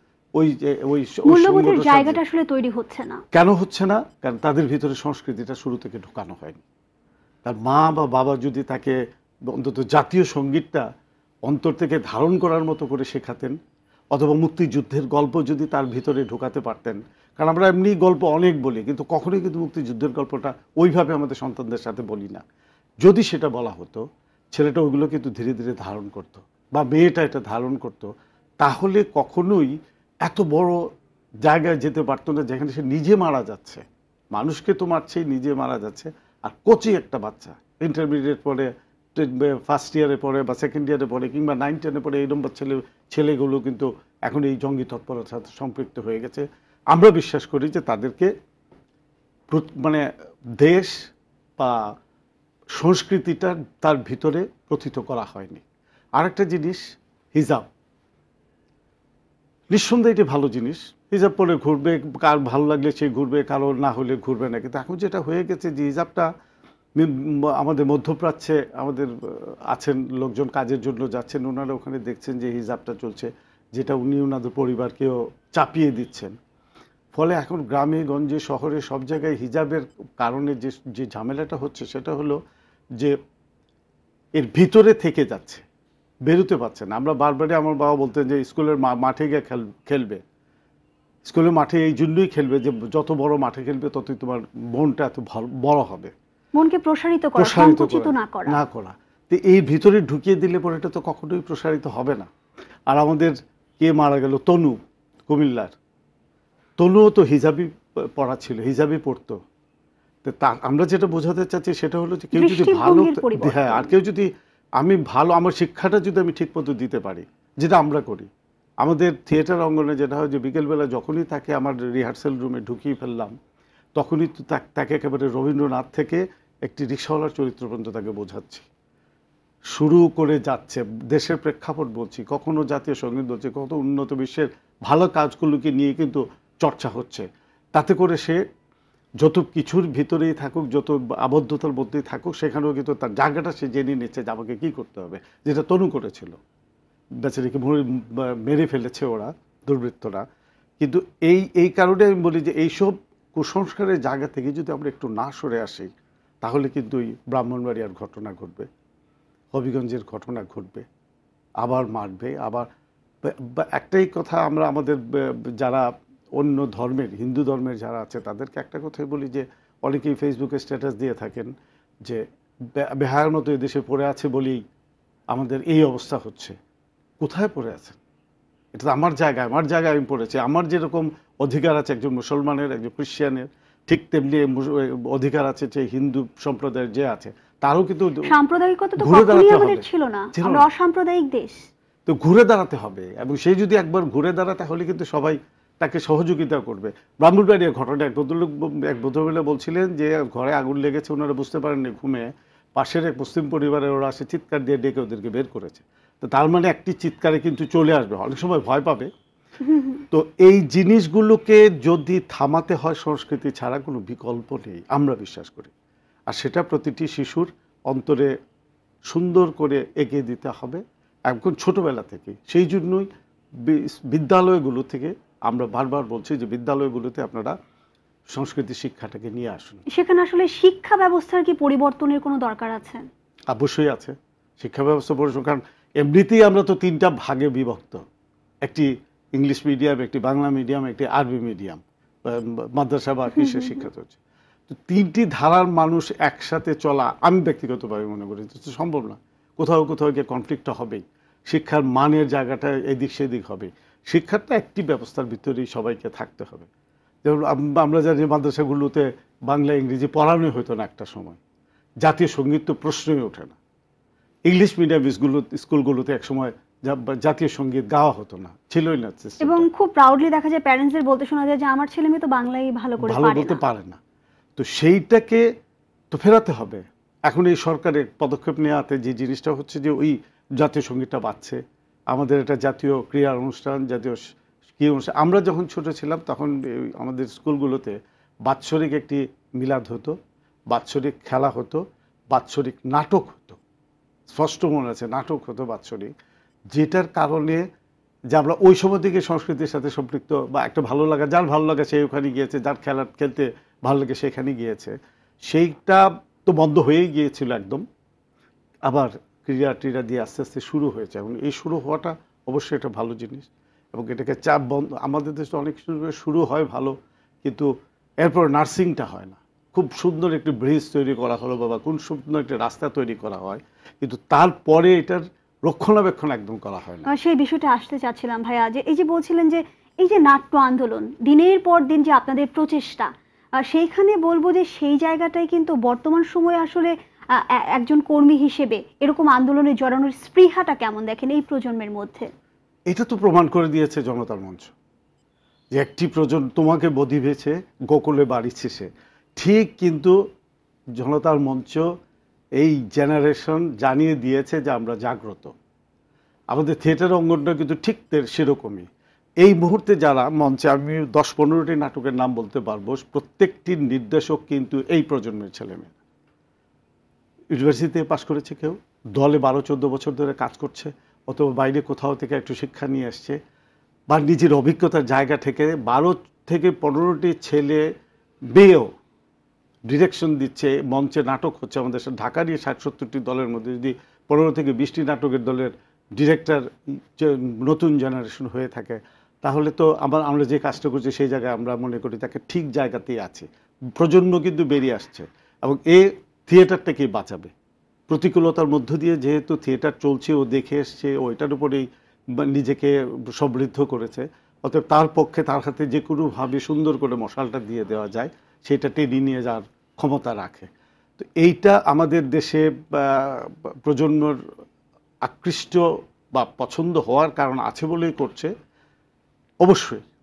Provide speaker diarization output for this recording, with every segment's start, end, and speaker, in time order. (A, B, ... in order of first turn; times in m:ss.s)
0:00.4-0:02.2 A
0:01.2-0:03.2 B
0:03.3-0:06.6 A
0:07.4-0:10.8 A
0:11.4-0:13.6 A
0:14.1-0:22.4 A
0:23.0-0:30.8 A
0:31.4-0:48.3 A
0:49.5-0:50.0 A
0:50.6-0:50.9 A
0:52.8-0:55.6 A
0:56.2-0:56.8 A
0:57.3-0:57.7 A
0:59.7-1:06.3 A
1:07.0-1:16.3 A
1:17.1-1:22.4 A
1:24.4-1:25.6 A
1:26.3-1:30.2 A
1:31.3-1:36.1 A
1:36.6-1:38.6 B
1:37.4-1:42.3 A
1:42.9-1:45.8 A
1:46.8-1:49.4 A
1:50.2-1:58.3 A
1:52.3-1:53.9 B
1:58.8-2:03.3 A
2:04.0-2:08.6 A
2:09.7-2:18.4 A
2:19.2-2:26.4 A
2:27.2-2:30.2 A
2:30.8-2:35.9 A
2:36.4-2:38.7 A
2:39.5-2:40.8 A
2:41.6-2:42.7 A
2:43.2-2:45.0 A
2:45.6-2:51.5 A
2:52.0-2:54.6 A
2:55.3-2:56.6 A
2:57.2-2:58.0 A
2:58.7-3:08.3 A
3:08.2-3:11.6 B
3:09.0-3:10.7 A
3:12.0-3:29.1 A
3:29.6-3:30.0 B
3:30.1-3:35.7 A
3:36.3-3:38.3 A
3:39.1-3:43.1 A
3:43.6-3:47.5 A
3:48.3-3:49.8 A
3:49.9-3:53.1 B
3:53.5-3:58.0 A
3:58.6-4:04.2 A
4:04.7-4:16.7 A
4:17.2-4:21.4 A
4:22.0-4:23.6 A
4:24.5-4:29.7 A
4:29.4-4:33.6 B
4:33.0-4:34.0 A
4:34.6-4:35.4 A
4:36.1-4:50.2 A
4:50.7-4:53.6 A
4:54.3-4:56.1 A
4:56.7-4:57.6 A
4:58.3-5:04.9 A
5:05.4-5:07.8 A
5:08.9-5:27.1 A
5:27.1-5:42.3 B
5:42.9-5:44.7 A
5:45.7-5:50.2 A
5:51.0-5:51.9 A
5:52.6-5:55.5 A
5:56.5-5:58.9 A
5:59.4-6:05.9 A
6:07.5-6:13.4 A
6:14.1-6:17.9 A
6:18.5-6:18.9 A
6:19.9-6:37.5 A
6:38.1-6:54.4 A
6:55.2-6:58.5 A
6:59.6-7:00.0 A